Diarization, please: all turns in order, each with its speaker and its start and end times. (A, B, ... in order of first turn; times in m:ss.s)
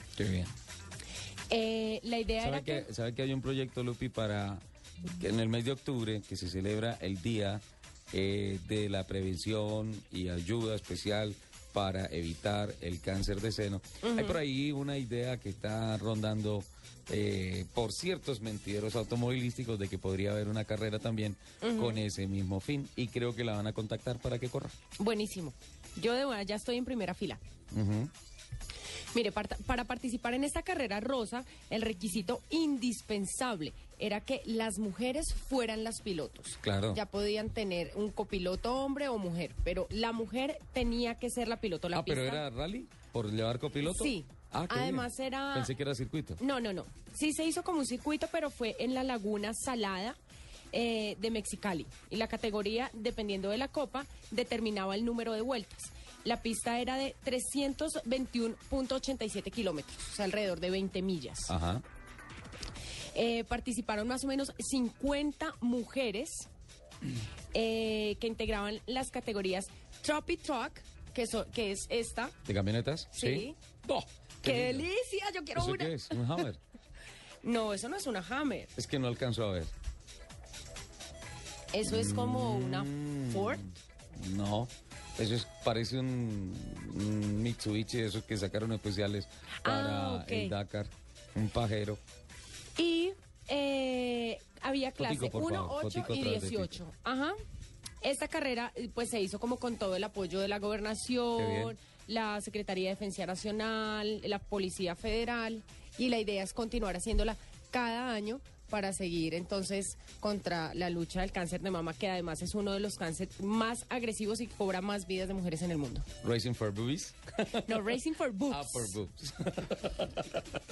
0:00.2-0:00.5 A
0:01.5-0:02.9 B
0:02.4-0:24.7 A
0:14.0-0:14.4 B
0:21.6-0:22.0 B
0:25.0-0:27.4 B
0:27.7-0:28.1 A
0:29.1-0:42.4 B
0:36.6-0:37.0 A
0:41.9-0:46.4 A
0:43.8-0:45.7 B
0:46.4-0:50.2 B
0:50.7-1:01.5 B
1:01.5-1:01.8 A
1:03.1-1:06.5 B
1:07.5-1:12.4 B
1:12.4-1:14.9 A
1:13.1-1:13.6 B
1:14.4-1:16.4 B
1:15.5-1:16.6 A
1:17.4-1:18.7 B
1:18.8-1:19.7 A
1:21.7-1:23.7 B
1:21.8-1:32.0 A
1:29.6-1:30.5 B
1:32.8-1:37.4 B
1:35.0-1:36.8 A
1:38.0-1:56.1 B
1:41.4-1:41.7 A
1:56.2-1:58.0 A
1:57.6-1:58.9 B
1:58.5-2:00.5 A